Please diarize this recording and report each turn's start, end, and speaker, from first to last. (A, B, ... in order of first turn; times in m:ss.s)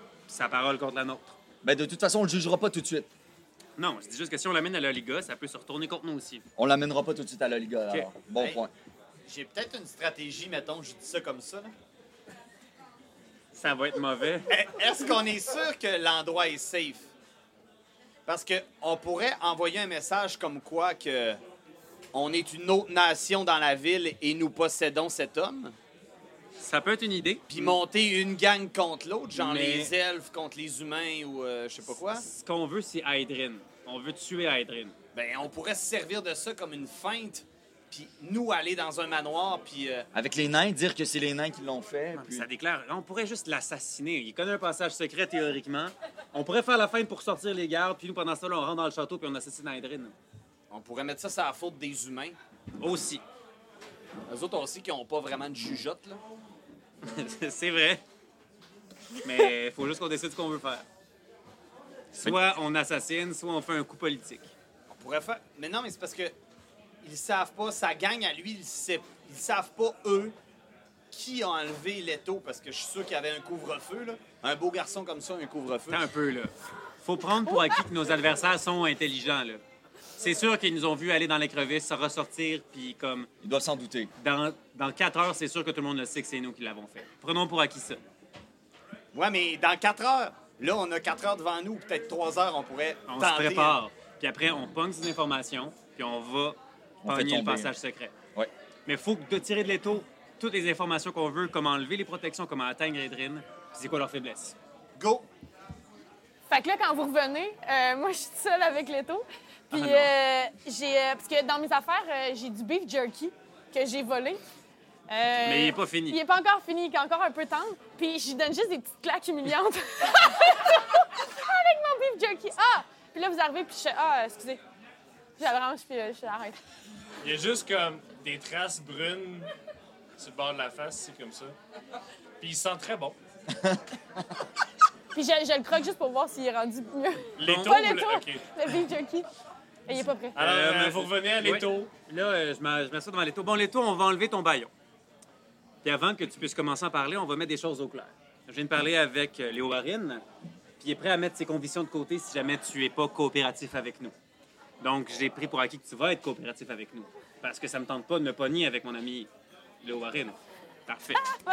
0:00.3-0:01.4 A
0:01.6-0:03.1 B
0:03.8-0:06.4 A
0:06.6-0:08.7 B
0:08.3-0:08.6 C
0:09.2-0:11.7 C
0:13.5-0:14.5 A
0:14.5-0:17.1 C
0:18.2-0:21.4 C
0:22.1-0:25.7 C
0:26.6-0:27.8 A
0:27.5-0:32.2 C
0:29.3-0:29.9 A
0:32.1-0:34.9 A
0:35.1-0:40.1 C
0:40.1-0:42.4 B
0:42.1-0:50.1 A
0:50.7-0:52.4 C
0:52.8-0:53.2 A
0:54.3-0:56.2 C
0:57.0-0:58.0 A
0:59.2-1:00.8 A
1:02.1-1:04.5 A
1:04.9-1:06.3 C
1:07.0-1:10.4 C
1:11.1-1:16.1 C
1:15.9-1:19.6 A
1:20.2-1:23.3 A
1:23.4-1:24.1 B
1:24.2-1:28.0 A
1:29.1-1:33.8 C
1:33.1-1:38.1 A
1:37.0-1:37.7 B
1:38.8-1:44.6 A
1:45.0-1:45.3 C
1:46.5-1:54.4 D
1:49.7-1:50.1 A
1:55.1-2:04.6 D
1:55.4-1:56.2 A
2:05.4-2:06.6 D
2:07.2-2:09.5 E
2:10.2-2:11.5 E
2:12.4-2:13.2 E
2:13.5-2:13.8 B
2:15.1-2:19.3 D
2:17.4-2:18.5 E
2:19.9-2:20.4 D
2:20.3-2:21.9 E
2:20.4-2:24.7 A
2:25.8-2:30.2 A
2:30.8-2:34.1 A
2:34.8-2:39.3 A
2:39.8-2:41.2 A